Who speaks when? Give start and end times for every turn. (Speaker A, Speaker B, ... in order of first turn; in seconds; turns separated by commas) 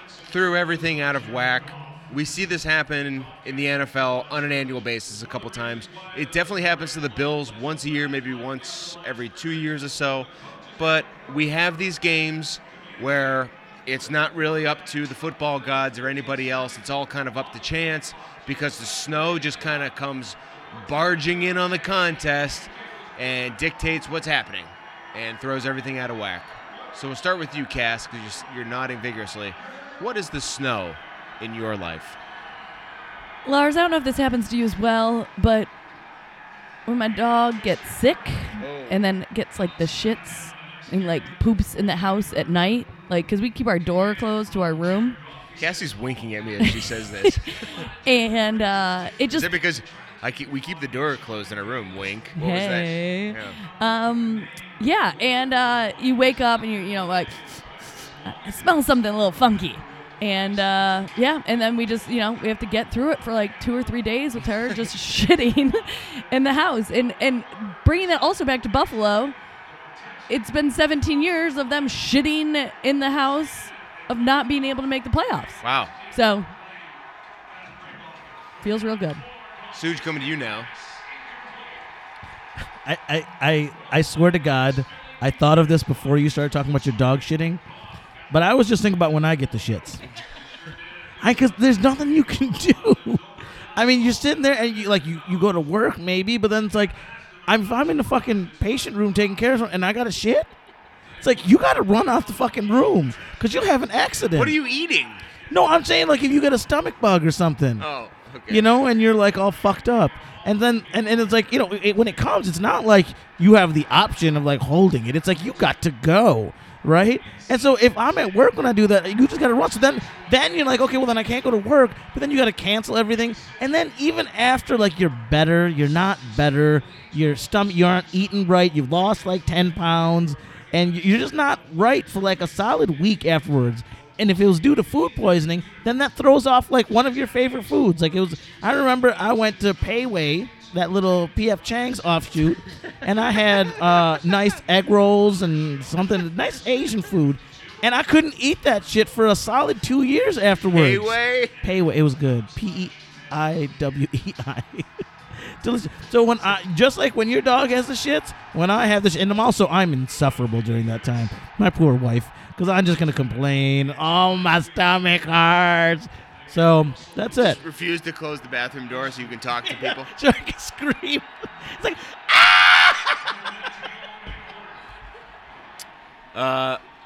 Speaker A: 0.3-32.2, Speaker B: 33.5-35.7, Speaker B: 36.9-45.2, Speaker A: 38.6-39.0, Speaker A: 45.6-47.7, Speaker B: 46.6-49.5, Speaker A: 49.3-53.6, Speaker B: 52.4-57.7, Speaker B: 58.2-69.3, Speaker B: 70.3-76.5, Speaker A: 75.6-75.9, Speaker B: 78.6-79.2, Speaker A: 79.7-80.7, Speaker C: 82.8-87.6, Speaker C: 88.3-90.0, Speaker C: 91.2-93.2, Speaker C: 93.8-97.0, Speaker C: 97.5-100.5, Speaker C: 101.2-104.5, Speaker A: 104.4-105.2, Speaker C: 105.5-107.9, Speaker A: 107.8-108.7, Speaker C: 108.5-167.6, Speaker A: 150.7-151.5, Speaker A: 167.4-170.1, Speaker C: 169.7-173.3, Speaker A: 176.3-176.8